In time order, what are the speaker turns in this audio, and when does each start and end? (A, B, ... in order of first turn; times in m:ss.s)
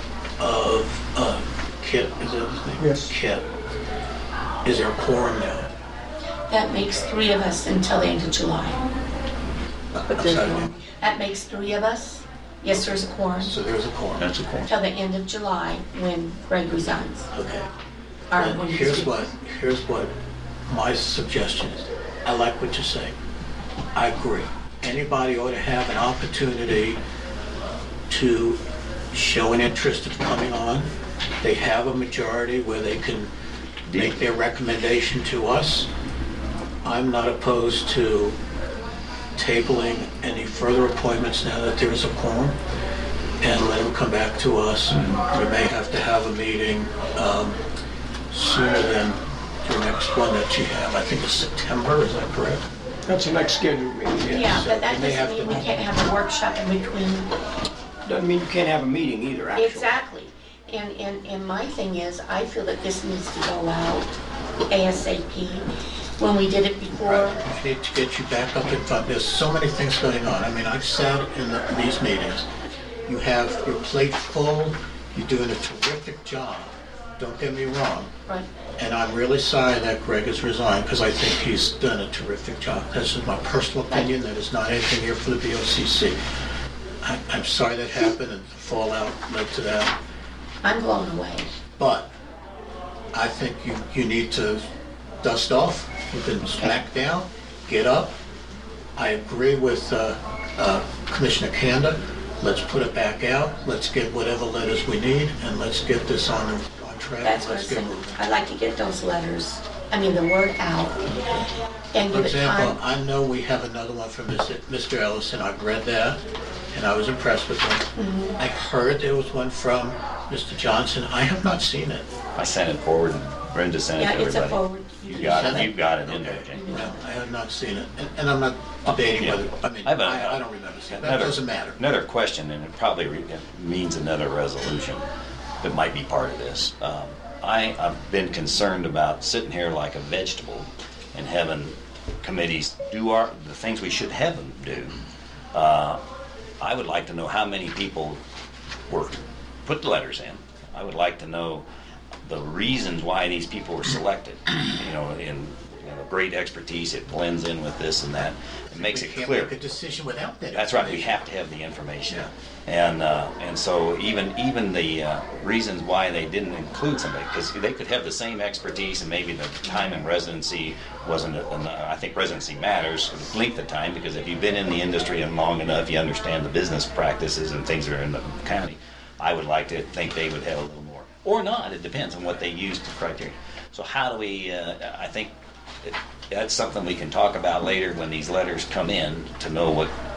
0:00.4-0:03.4 A
0:02.8-0:03.1 B
0:04.6-0:05.7 A
0:06.5-0:08.8 C
0:09.9-0:10.7 A
0:10.1-0:13.5 C
0:13.4-0:14.3 A
0:14.2-0:14.7 D
0:14.6-0:17.3 C
0:17.3-0:17.7 A
0:18.3-0:19.1 C
0:18.4-0:20.1 A
0:20.7-0:23.2 A
0:24.0-0:27.0 A
0:28.1-0:28.6 A
0:29.1-0:30.9 A
0:31.4-0:33.3 A
0:33.9-0:34.2 D
0:33.9-0:35.9 A
0:36.8-0:38.4 A
0:39.4-0:42.6 A
0:43.4-0:47.6 A
0:48.3-0:52.7 A
0:53.1-0:54.6 B
0:54.3-0:57.3 C
0:54.4-0:55.9 A
0:58.0-0:59.9 B
0:59.5-1:04.2 C
1:04.7-1:07.4 C
1:07.0-1:12.5 A
1:13.1-1:18.1 A
1:18.8-1:26.2 A
1:27.0-1:30.0 A
1:30.6-1:31.5 C
1:31.8-1:32.1 A
1:33.1-1:34.6 A
1:35.2-1:38.2 A
1:39.0-1:48.2 A
1:47.2-1:51.1 C
1:51.1-1:51.4 A
1:51.9-1:52.8 C
1:52.1-1:56.2 A
1:56.7-2:02.1 A
1:58.0-1:58.4 C
2:02.4-2:06.7 D
2:04.0-2:05.7 C
2:05.2-2:11.8 A
2:06.6-2:07.0 C
2:09.2-2:15.0 D
2:15.6-2:25.0 D
2:25.5-2:26.0 D
2:26.6-2:28.2 D
2:28.9-2:31.6 D
2:32.2-2:39.5 D
2:38.7-2:41.2 A
2:40.5-3:05.3 D
2:49.6-2:50.0 C
3:05.8-3:09.9 D